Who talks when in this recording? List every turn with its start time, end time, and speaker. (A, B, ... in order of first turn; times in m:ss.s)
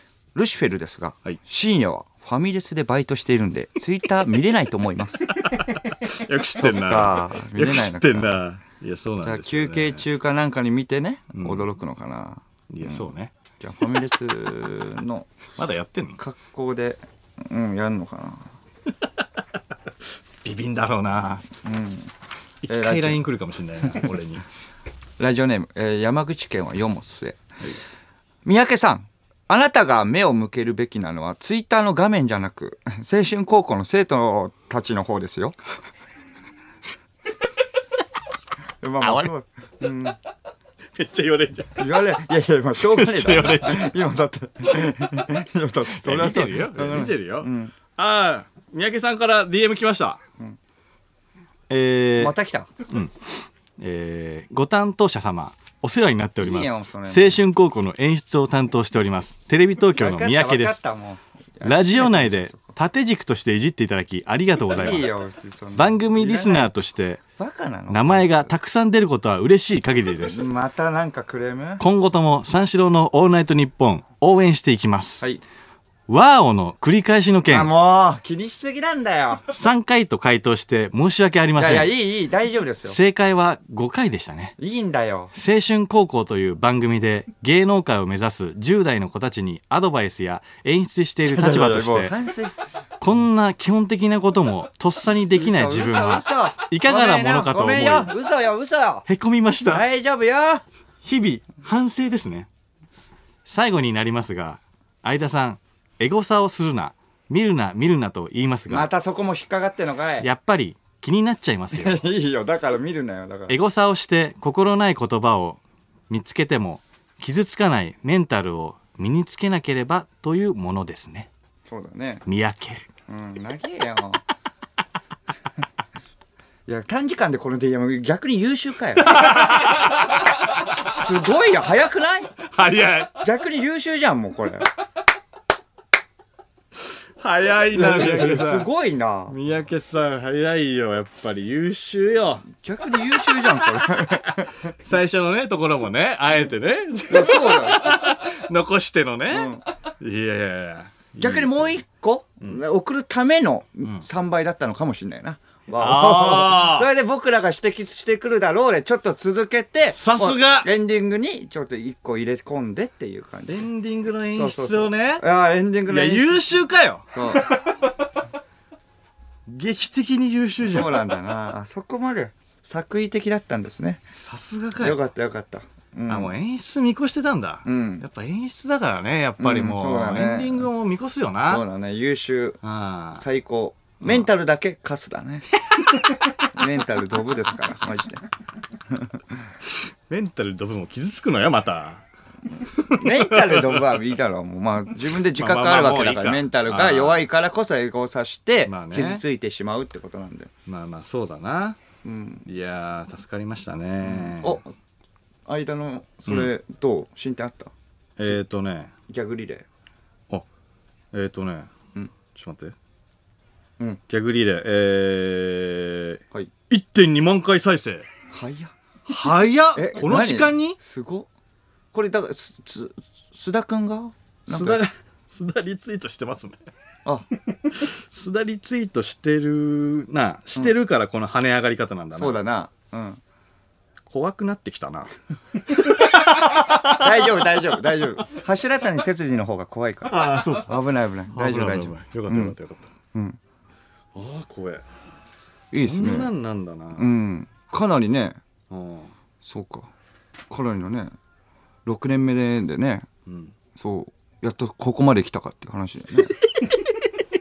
0:00.3-0:05.5 A
0:05.4-0:10.0 B
0:06.6-0:08.4 A
0:09.2-0:15.4 A
0:11.3-0:11.7 B
0:12.7-0:13.3 B
0:15.6-0:16.2 B
0:16.2-0:18.5 A
0:20.4-0:21.4 B
0:21.6-0:22.1 A
0:22.6-0:24.4 B
0:22.7-0:23.2 A
0:25.2-0:27.4 A
0:28.4-0:35.6 A
0:38.8-0:40.2 A
0:39.0-0:39.3 B
0:40.9-0:41.9 B
0:41.8-0:47.7 A
0:42.8-0:43.9 B
0:45.9-0:50.2 B
0:51.7-0:52.3 B
0:52.2-0:52.7 A
0:52.9-1:00.8 B
0:56.4-0:57.4 A
1:00.0-1:02.7 A
1:01.6-1:05.1 B
1:04.7-1:06.7 A
1:05.7-1:07.2 B
1:07.4-1:08.5 A
1:07.9-1:10.4 B
1:10.2-1:11.8 A
1:11.8-1:15.2 B
1:16.1-1:17.7 B
1:17.5-1:19.4 A
1:19.5-1:21.9 B
1:21.6-1:23.0 A
1:22.8-1:24.6 B
1:24.6-1:25.3 A
1:25.3-1:32.1 B
1:31.2-1:32.6 A
1:33.0-1:38.1 B
1:35.3-1:39.0 A
1:39.0-1:39.8 B
1:39.7-1:40.6 A
1:41.0-1:42.5 B
1:43.4-1:48.9 B
1:48.7-1:50.3 A
1:50.2-1:52.0 B
1:51.7-1:53.6 A
1:53.5-2:01.3 B
2:01.6-2:02.2 A
2:02.2-2:02.8 B
2:03.1-2:04.2 A
2:06.7-2:09.9 A
2:09.1-2:09.9 B
2:10.8-2:12.3 A
2:12.4-2:13.2 B
2:13.1-2:14.7 A
2:17.2-2:18.7 B
2:17.7-2:19.4 A
2:19.3-2:22.4 B
2:22.5-2:24.8 A
2:23.2-2:24.1 B
2:24.7-2:31.8 B
2:27.1-2:28.1 A
2:29.3-2:29.6 A
2:31.2-2:43.7 A
2:35.8-2:36.9 B
2:39.9-2:40.7 B
2:43.5-2:45.2 B
2:44.3-2:47.6 A
2:45.8-2:47.9 B
2:49.4-2:51.0 B
2:50.6-2:54.1 A
2:54.1-2:55.0 B
2:54.8-2:56.3 A
2:56.1-3:01.6 B
2:57.6-2:58.0 A
2:59.4-3:00.7 A
3:01.5-3:02.6 A
3:02.6-3:03.2 B
3:03.1-3:05.6 A
3:04.0-3:04.3 B
3:05.7-3:06.5 B
3:06.5-3:08.2 A
3:08.9-3:09.4 A
3:10.1-3:12.0 B
3:12.6-3:14.1 B
3:12.9-3:20.5 A
3:15.3-3:17.2 B
3:18.6-3:19.2 B
3:20.6-3:21.8 B
3:22.0-3:22.4 A
3:22.4-3:24.6 B
3:24.0-3:24.7 A
3:25.5-3:27.7 A
3:28.2-3:28.9 B
3:29.1-3:29.6 A
3:31.1-3:31.7 B
3:32.3-3:32.7 B
3:34.1-3:38.1 B
3:38.3-3:38.7 A
3:39.0-3:40.8 B
3:39.7-3:41.3 A
3:41.9-3:44.8 A
3:44.5-3:46.6 B
3:47.5-3:52.4 B
3:52.1-3:53.2 A
3:54.0-3:55.1 B
3:56.1-4:02.6 A
3:56.4-3:57.1 B
4:00.1-4:00.8 B
4:01.3-4:02.9 B
4:03.1-4:03.4 A
4:04.1-4:04.8 B
4:05.7-4:06.3 A
4:05.8-4:07.1 B
4:06.9-4:08.4 A
4:08.7-4:09.1 B
4:09.4-4:09.9 A
4:10.5-4:11.1 A
4:11.8-4:13.1 A
4:13.2-4:13.5 B
4:13.8-4:16.4 A